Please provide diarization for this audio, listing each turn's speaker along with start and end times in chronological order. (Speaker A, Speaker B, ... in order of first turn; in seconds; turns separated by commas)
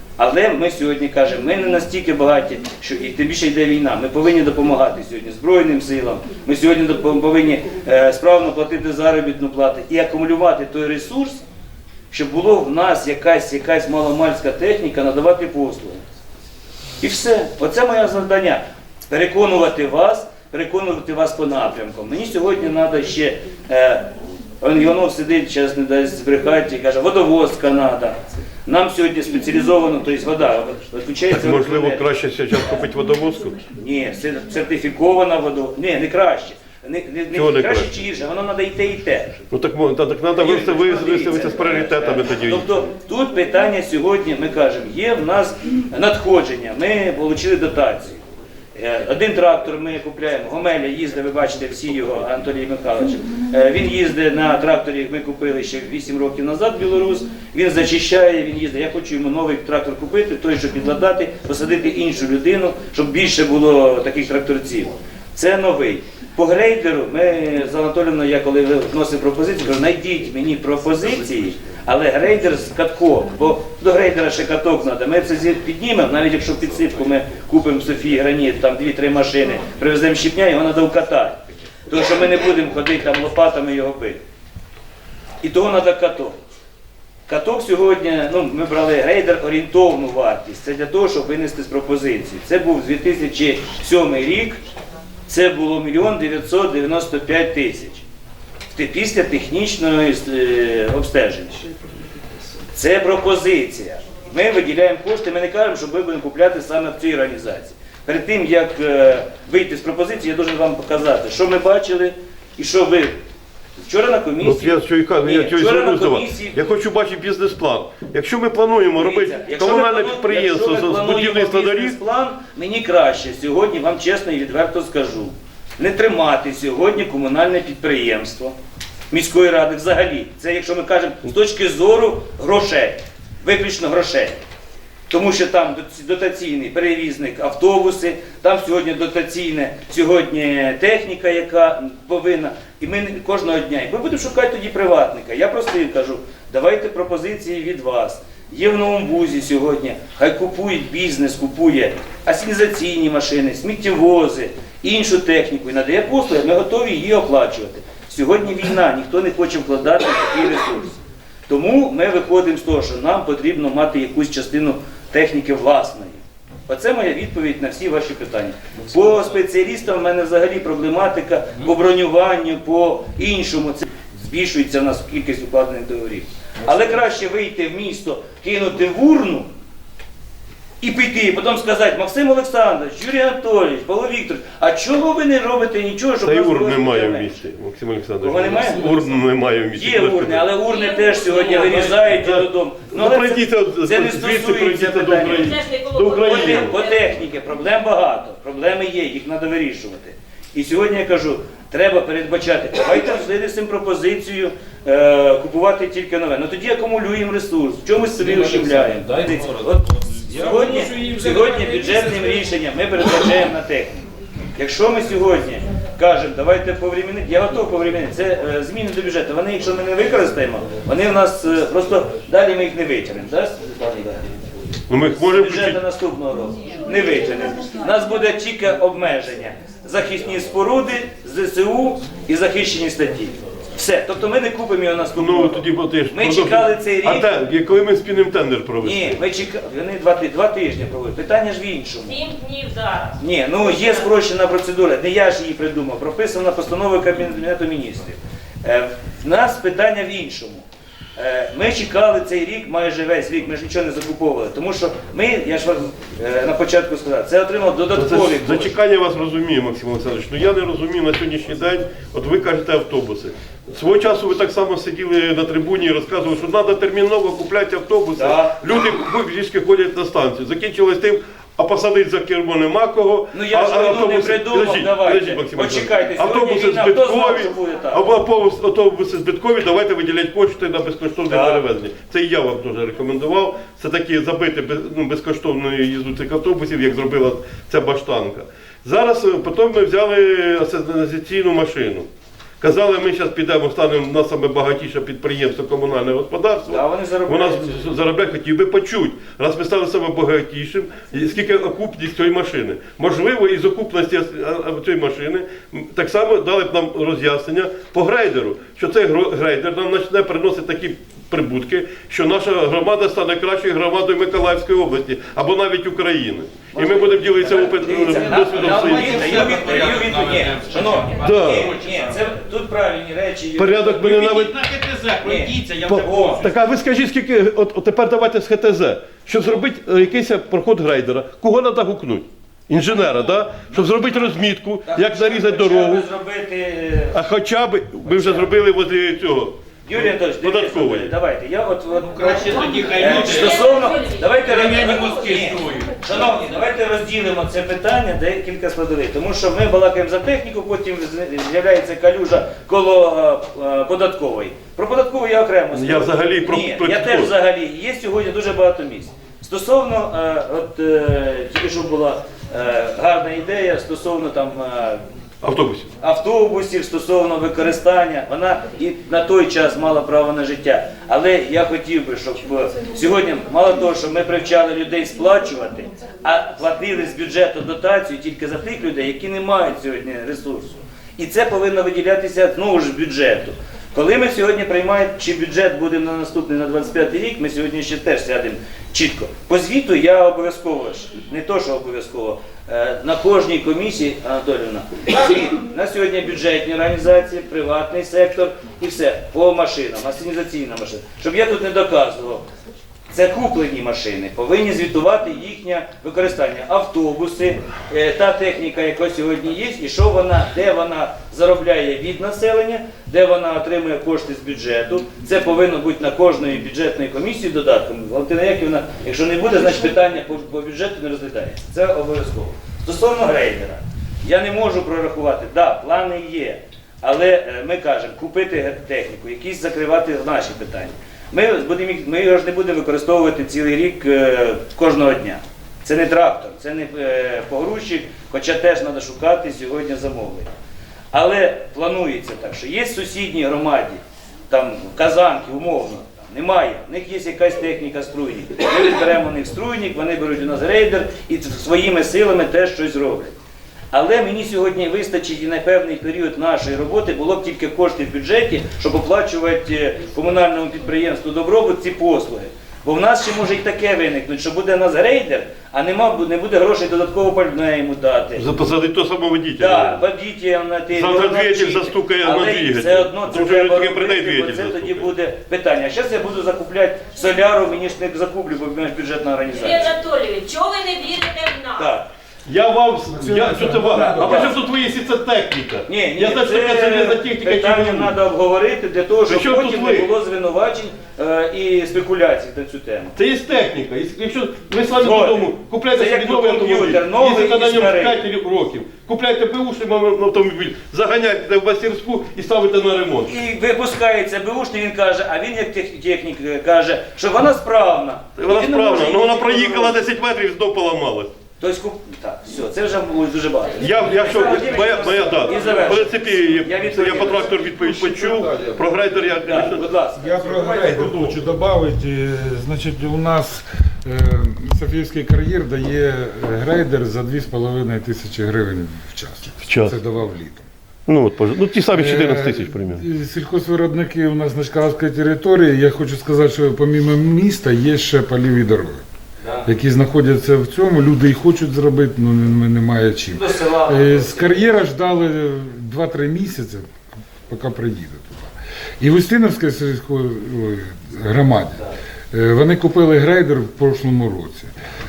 Speaker A: 0.2-11.4, Speaker A: 12.1-16.0, Speaker A: 17.0-24.1, Speaker A: 24.6-32.1, Speaker B: 31.3-33.7, Speaker A: 33.8-39.5, Speaker B: 37.3-37.9, Speaker B: 39.5-42.9, Speaker A: 40.4-84.2, Speaker A: 85.4-86.4, Speaker A: 87.3-94.6, Speaker A: 95.3-98.0, Speaker A: 98.7-101.7, Speaker A: 102.7-113.2, Speaker A: 113.8-116.7, Speaker B: 114.4-122.0, Speaker A: 119.0-128.6, Speaker A: 129.1-134.4, Speaker A: 135.1-179.5, Speaker A: 180.8-187.3, Speaker B: 186.2-190.5, Speaker A: 188.2-189.0, Speaker C: 188.6-189.0, Speaker A: 189.7-195.5, Speaker D: 190.7-191.8, Speaker C: 191.2-192.0, Speaker B: 192.0-196.8, Speaker D: 195.2-197.0, Speaker A: 196.2-224.3, Speaker C: 208.2-212.5, Speaker B: 224.9-225.8, Speaker A: 225.0-237.5, Speaker B: 235.2-239.2, Speaker A: 238.8-242.2, Speaker D: 242.1-244.1, Speaker A: 243.2-250.7, Speaker A: 251.2-258.8, Speaker B: 257.9-292.1, Speaker A: 268.2-268.5, Speaker A: 273.3-278.1, Speaker A: 281.3-281.6, Speaker B: 292.6-319.6, Speaker A: 296.7-297.9, Speaker A: 316.7-324.3, Speaker C: 317.9-322.2, Speaker B: 321.2-321.7, Speaker B: 323.6-324.6, Speaker C: 324.1-326.6, Speaker A: 325.2-325.6, Speaker B: 325.9-336.1, Speaker A: 334.9-337.2, Speaker B: 337.1-341.1, Speaker A: 338.0-338.5, Speaker A: 339.9-365.0, Speaker C: 342.1-343.7, Speaker D: 342.8-345.5, Speaker C: 344.4-346.1, Speaker B: 355.7-357.3, Speaker B: 365.4-365.9, Speaker A: 366.0-402.5, Speaker A: 403.1-440.5, Speaker A: 441.1-453.3, Speaker A: 453.9-468.5, Speaker B: 468.4-470.1, Speaker A: 469.6-479.9, Speaker B: 470.9-475.1, Speaker D: 479.5-482.0, Speaker A: 481.8-482.1, Speaker B: 482.5-488.1, Speaker E: 483.1-484.4, Speaker A: 484.0-484.6, Speaker A: 485.9-493.1, Speaker B: 489.3-490.1, Speaker B: 493.2-503.3, Speaker A: 495.0-498.2, Speaker A: 503.2-510.0, Speaker B: 508.4-511.3, Speaker A: 511.6-517.6, Speaker B: 513.8-519.9, Speaker E: 518.2-518.5, Speaker A: 519.4-521.4, Speaker E: 520.2-530.7, Speaker B: 529.6-530.0, Speaker B: 531.1-533.0, Speaker E: 531.9-539.0, Speaker A: 539.4-539.7, Speaker E: 539.7-546.9, Speaker A: 543.3-544.7, Speaker E: 547.5-554.7